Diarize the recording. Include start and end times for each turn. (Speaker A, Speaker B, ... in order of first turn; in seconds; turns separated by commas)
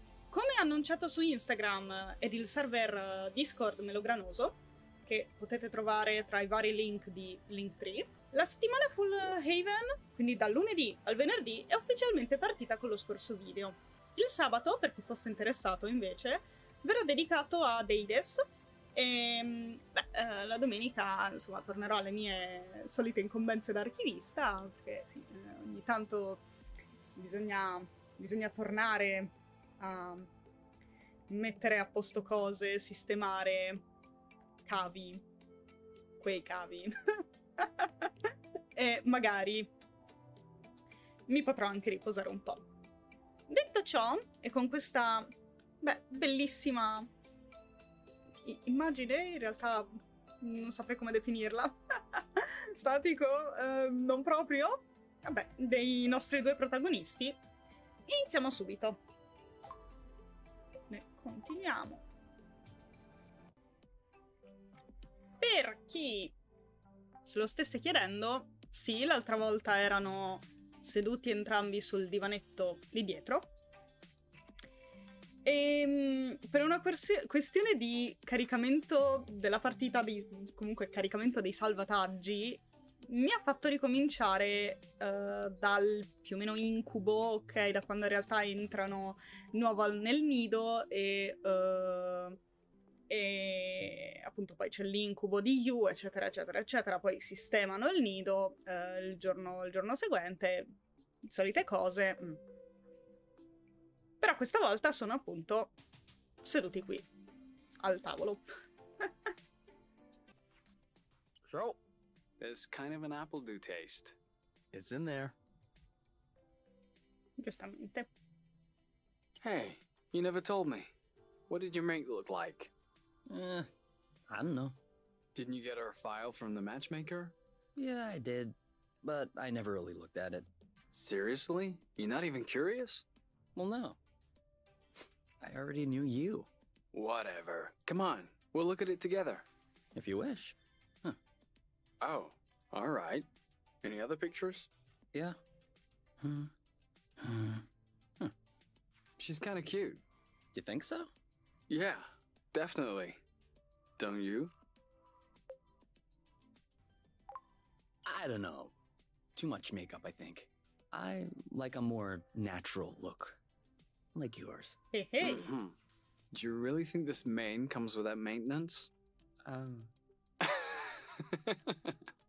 Speaker A: 0.3-26.4, Speaker A: 27.1-30.3, Speaker A: 31.3-33.8, Speaker A: 34.6-35.2, Speaker A: 36.2-36.9, Speaker A: 37.6-39.7, Speaker A: 41.3-42.6, Speaker A: 43.5-47.1, Speaker A: 48.4-57.4, Speaker A: 58.1-59.0, Speaker A: 60.9-62.0, Speaker A: 65.4-66.3, Speaker A: 67.2-73.5, Speaker A: 75.4-92.4, Speaker A: 93.1-100.7, Speaker A: 101.2-102.4, Speaker A: 104.2-105.7, Speaker A: 106.4-107.1, Speaker A: 107.8-108.4, Speaker B: 111.5-111.8, Speaker C: 112.4-114.2, Speaker B: 114.7-115.3, Speaker A: 117.4-118.1, Speaker C: 119.4-120.9, Speaker C: 121.5-122.7, Speaker B: 123.3-123.7, Speaker B: 124.3-124.7, Speaker C: 125.3-127.3, Speaker B: 127.8-130.5, Speaker C: 130.9-133.0, Speaker B: 133.5-134.0, Speaker B: 135.4-136.5, Speaker C: 136.9-139.4, Speaker B: 139.9-141.2, Speaker C: 142.0-143.2, Speaker C: 143.8-144.7, Speaker B: 145.1-145.4, Speaker B: 146.2-146.5, Speaker B: 147.2-147.7, Speaker C: 149.2-150.0, Speaker B: 150.5-151.1, Speaker C: 151.7-153.2, Speaker C: 154.0-154.5, Speaker B: 158.0-158.7, Speaker B: 159.3-163.4, Speaker B: 164.1-164.8, Speaker A: 164.9-165.5, Speaker C: 165.2-165.8, Speaker C: 166.3-168.9, Speaker B: 169.4-169.9, Speaker C: 170.4-172.0